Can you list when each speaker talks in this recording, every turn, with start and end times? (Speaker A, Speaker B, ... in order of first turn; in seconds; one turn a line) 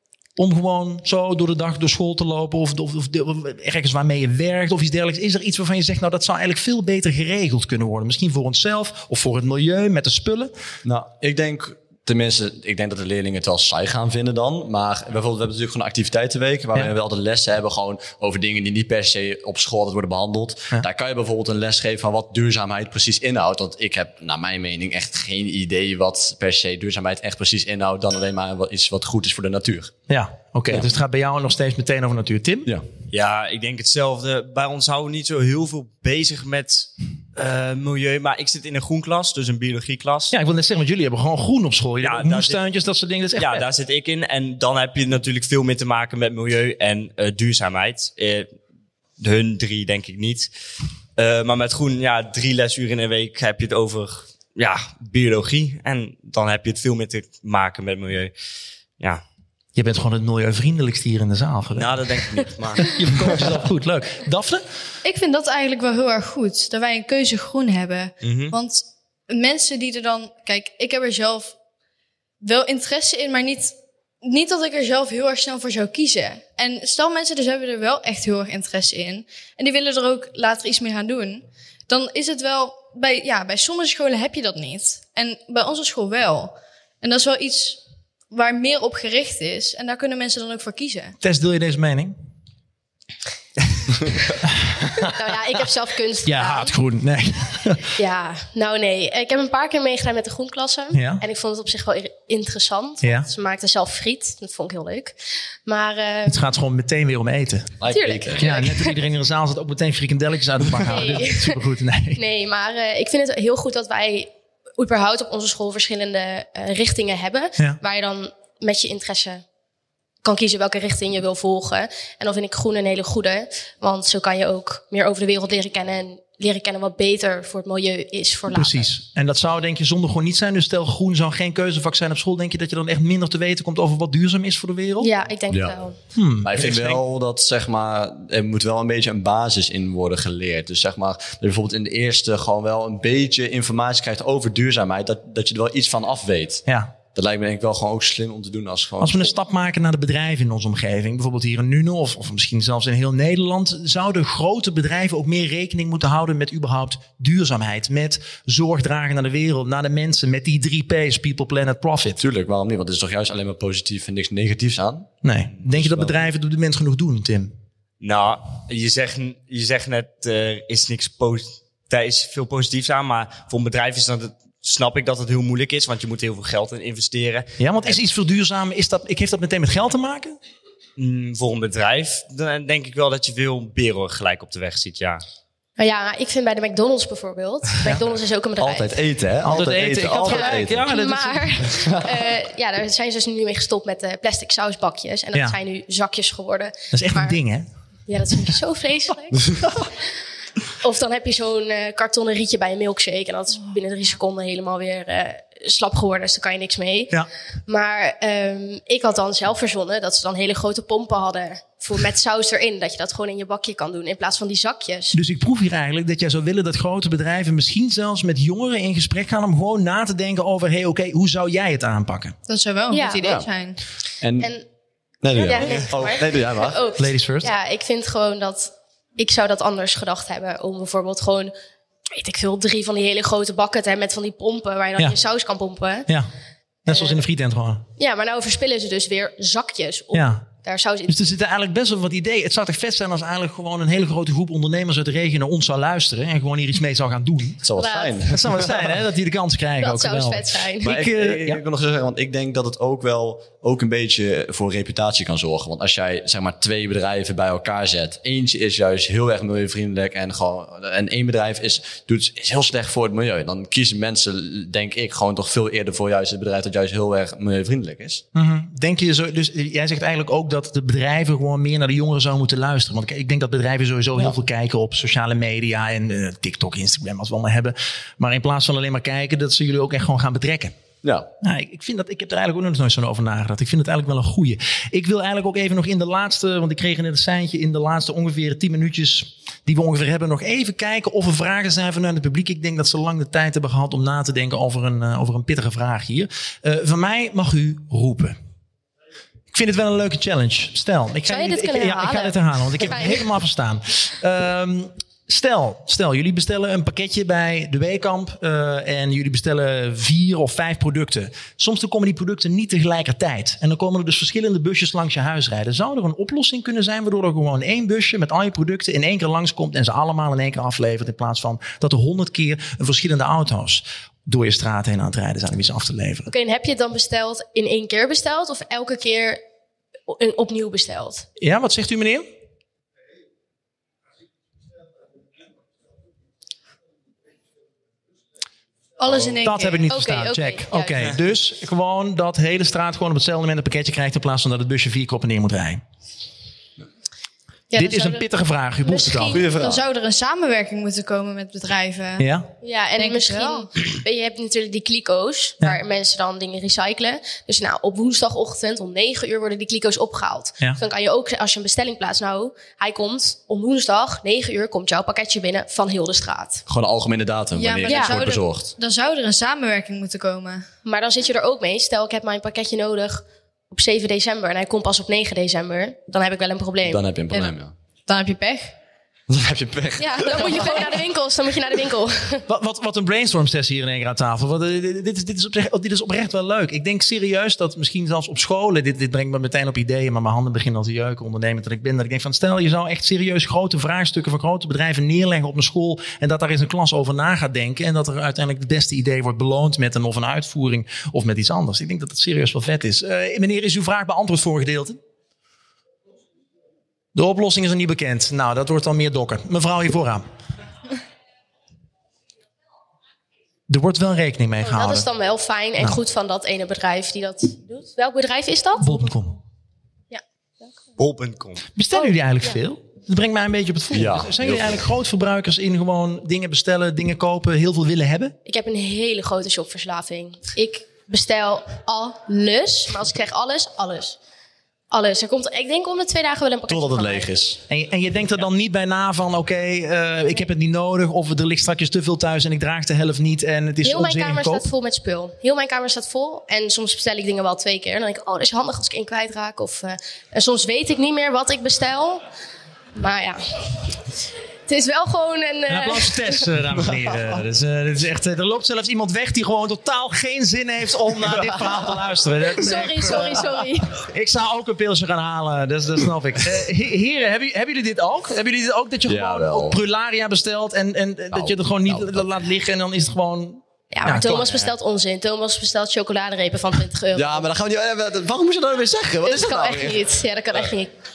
Speaker A: 0.4-10.5
Speaker B: 10.8-29.9
Speaker A: 30.1-32.7
Speaker C: 33.1-40.3
Speaker A: 40.3-43.6
Speaker C: 42.0-42.6
Speaker C: 43.4-48.5
Speaker C: 49.2-50.5
Speaker C: 51.2-58.3
Speaker A: 59.7-62.0
Speaker C: 61.7-63.4
Speaker A: 62.8-64.6
Speaker D: 65.0-71.5
Speaker C: 68.2-68.5
Speaker D: 72.4-87.8
Speaker D: 88.3-91.2
Speaker A: 91.2-92.2
Speaker A: 94.4-95.1
Speaker E: 95.1-96.7
Speaker A: 96.2-97.9
Speaker E: 98.0-106.4
Speaker A: 100.9-101.2
Speaker A: 103.0-103.3
Speaker A: 106.3-107.8
Speaker B: 107.8-108.5
Speaker E: 107.9-109.0
Speaker A: 108.4-112.2
Speaker E: 110.8-111.6
Speaker E: 112.1-119.4
Speaker E: 120.2-128.9
Speaker A: 128.5-135.1
Speaker E: 135.0-136.0
Speaker B: 135.5-135.8
Speaker A: 136.1-137.0
Speaker B: 136.4-146.6
Speaker A: 146.7-146.9
Speaker B: 147.1-149.3
Speaker A: 149.0-162.2
Speaker B: 162.2-165.1
Speaker A: 165.2-167.5
Speaker B: 165.8-166.1
Speaker C: 168.0-178.0
Speaker A: 177.6-180.3
Speaker C: 181.0-185.2
Speaker E: 185.8-189.0
Speaker B: 188.6-190.8
Speaker A: 189.4-191.5
Speaker E: 190.2-197.4
Speaker A: 196.9-197.7
Speaker E: 198.1-199.7
Speaker E: 200.8-215.1
Speaker A: 215.1-222.3
Speaker D: 222.4-223.8
Speaker E: 222.9-223.4
Speaker B: 224.2-224.5
Speaker E: 224.4-224.7
Speaker B: 225.2-226.8
Speaker E: 225.3-231.5
Speaker C: 225.6-225.9
Speaker A: 227.0-227.5
Speaker E: 232.1-236.1
Speaker A: 236.8-237.8
Speaker E: 236.9-237.2
Speaker E: 238.0-241.2
Speaker A: 240.1-240.4
Speaker A: 241.1-247.6
Speaker B: 247.6-248.8
Speaker E: 247.8-248.2
Speaker A: 248.3-251.6
Speaker E: 249.8-250.9
Speaker B: 250.8-268.2
Speaker A: 268.3-280.7
Speaker B: 281.0-281.3
Speaker A: 281.4-298.4
Speaker A: 299.5-326.3
Speaker E: 301.3-303.2
Speaker E: 326.3-329.4
Speaker E: 330.1-331.2
Speaker A: 331.4-332.3
Speaker D: 339.0-339.8
Speaker A: 339.4-345.8
Speaker E: 339.9-341.2
Speaker E: 347.7-348.2
Speaker A: 347.8-349.4
Speaker D: 348.8-352.3
Speaker B: 349.3-349.8
Speaker A: 352.2-352.5
Speaker E: 352.6-366.6
Speaker D: 352.9-353.7
Speaker B: 366.7-368.7
Speaker D: 367.5-370.6
Speaker E: 367.9-368.2
Speaker E: 370.8-377.0
Speaker B: 376.8-377.7
Speaker D: 378.1-378.7
Speaker B: 379.3-380.6
Speaker D: 380.0-380.9
Speaker E: 380.1-382.4
Speaker A: 382.5-405.0
Speaker A: 407.1-410.2
Speaker A: 413.7-415.1
Speaker E: 414.6-419.0
Speaker A: 418.8-419.4
Speaker E: 420.1-420.7
Speaker C: 421.0-421.6
Speaker A: 421.8-428.4
Speaker E: 421.9-422.6
Speaker B: 423.9-424.8
Speaker E: 428.4-434.2
Speaker E: 434.9-437.3
Speaker B: 436.7-437.6
Speaker A: 437.7-444.7
Speaker E: 443.8-452.2
Speaker E: 452.9-454.0
Speaker E: 454.7-456.5
Speaker A: 455.7-474.5
Speaker E: 462.5-463.9
Speaker B: 469.1-469.8
Speaker B: 471.3-472.3
Speaker E: 473.9-477.5
Speaker C: 474.3-474.7
Speaker B: 477.1-480.0
Speaker E: 479.2-480.9